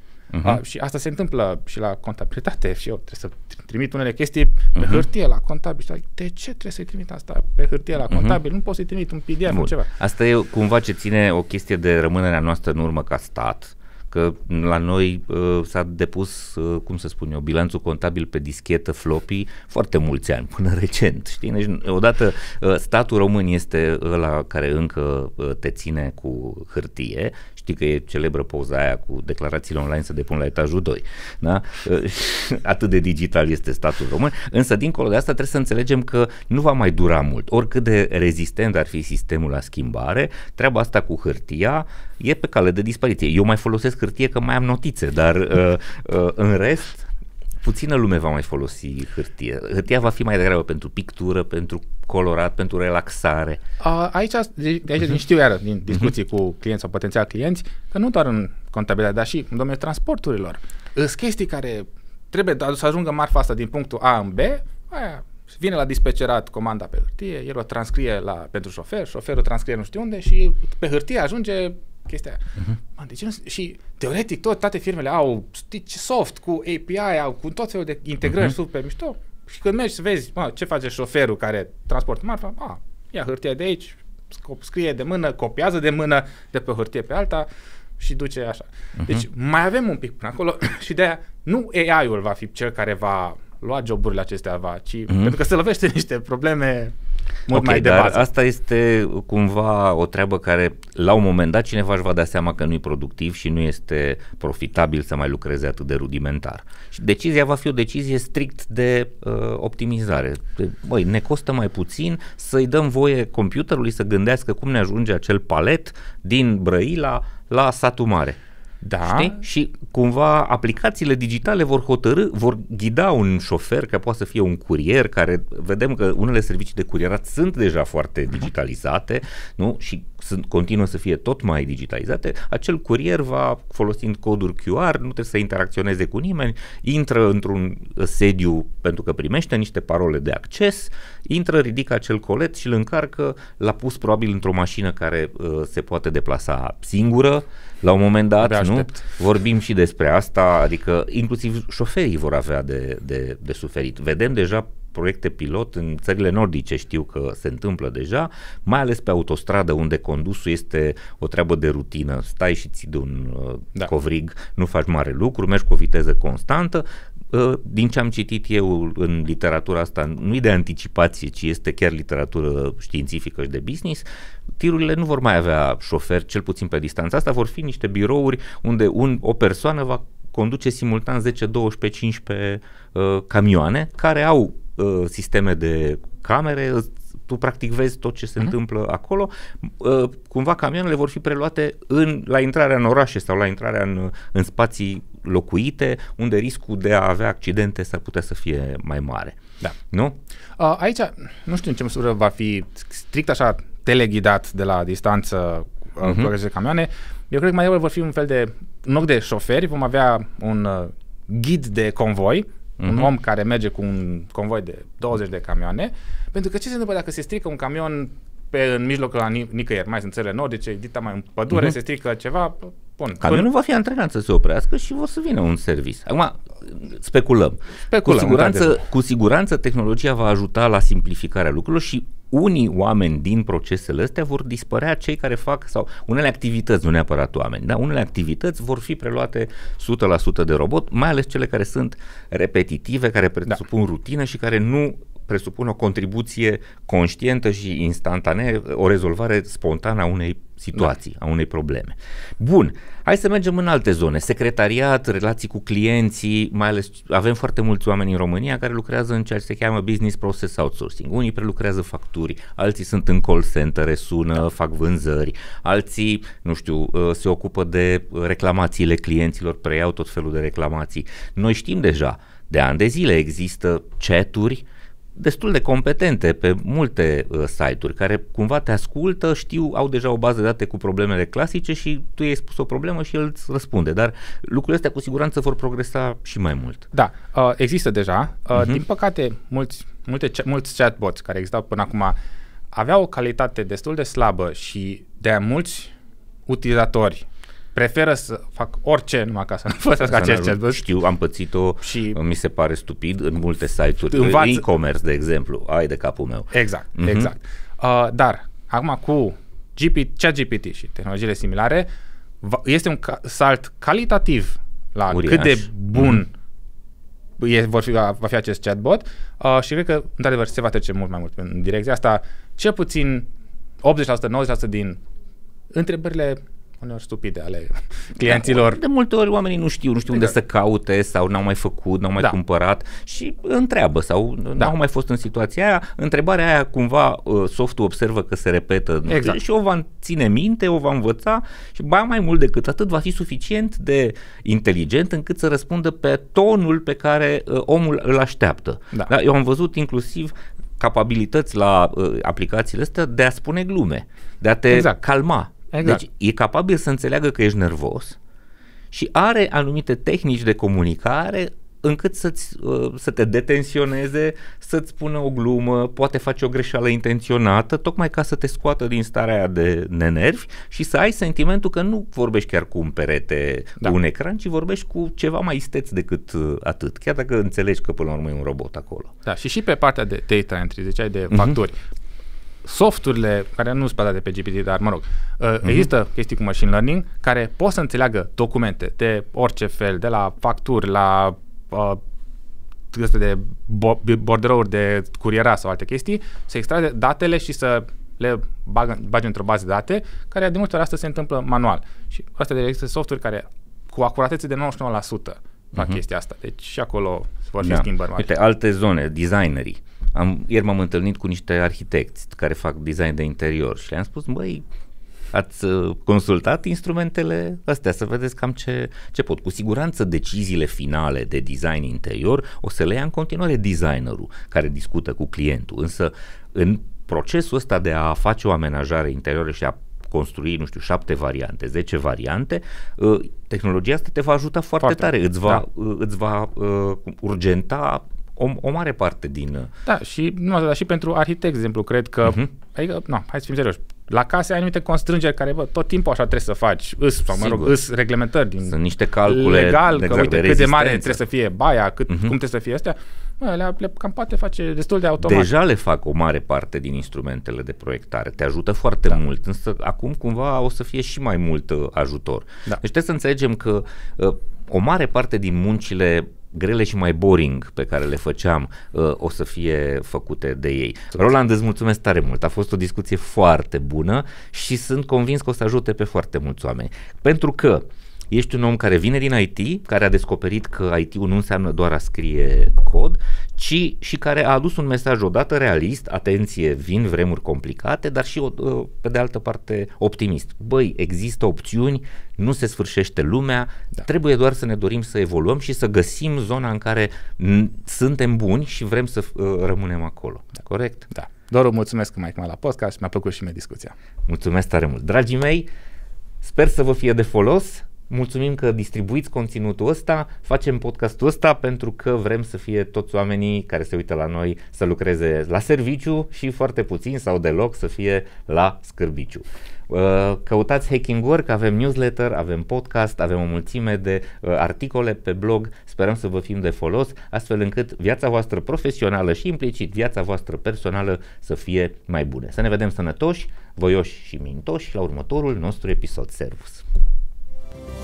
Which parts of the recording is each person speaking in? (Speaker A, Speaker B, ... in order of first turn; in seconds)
Speaker A: 0.3-0.6, 4.8-5.0, 8.1-8.4, 9.5-47.1, 47.6-53.6, 78.3-78.5, 97.5-118.4, 119.0-174.1, 174.6-199.4, 199.9-200.2, 206.0-206.3, 212.8-213.1, 223.2-286.9, 300.0-307.3, 315.1-316.2, 328.2-358.2, 358.9-379.1, 407.6-414.6, 415.3-439.7, 447.3-447.8, 448.6-451.2, 452.1-452.3, 455.2-501.1, 504.3-505.7, 506.4-536.9
Speaker B: 0.4-9.9, 53.8-87.5, 88.0-97.0, 97.5-98.3, 118.8-119.4, 148.4-149.1, 200.6-223.5, 227.9-228.8, 286.9-292.2, 292.7-295.9, 296.5-300.8, 301.8-302.2, 304.1-304.6, 306.5-311.9, 312.4-316.3, 317.4-323.3, 323.8-325.0, 325.7-328.8, 339.1-339.4, 354.7-355.0, 355.7-356.0, 379.3-381.8, 382.6-392.0, 392.9-408.3, 434.8-435.6, 439.9-455.5, 501.1-503.9